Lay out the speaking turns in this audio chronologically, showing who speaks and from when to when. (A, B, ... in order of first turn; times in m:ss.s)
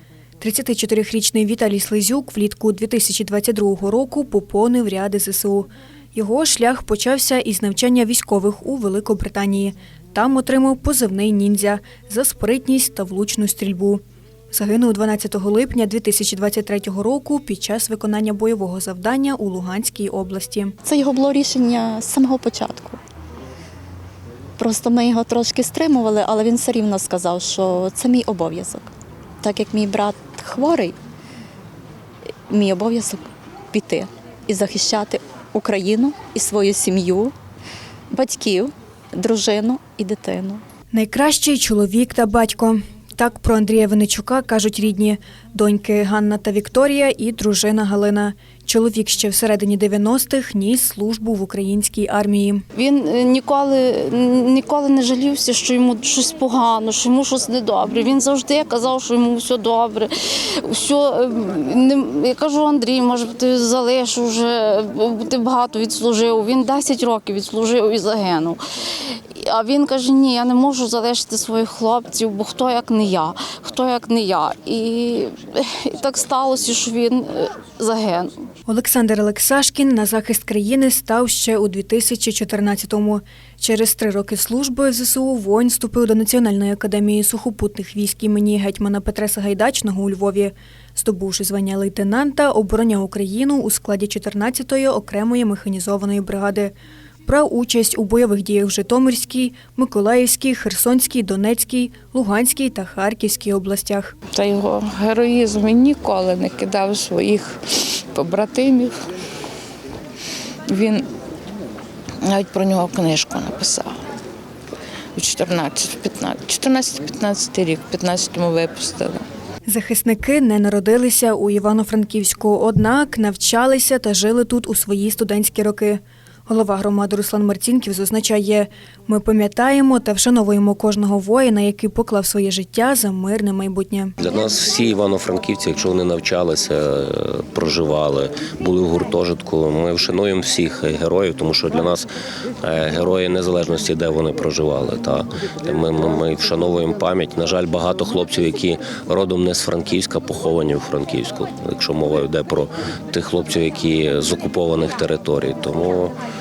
0:00.4-0:20.7 A
0:20.8-0:23.0 B
0:24.6-0:31.0 B
0:32.5-0:37.3 B
0:38.1-0:40.6 B
0:40.9-0:52.6 A
0:52.7-1:18.4 C
1:18.7-1:36.7 A
1:37.2-1:44.1 A
1:44.3-1:49.1 D
1:50.7-1:51.1 D
1:52.2-1:54.0 D
1:55.2-1:59.2 D
1:59.6-2:14.1 A
2:14.2-2:22.1 E
2:22.6-2:36.2 E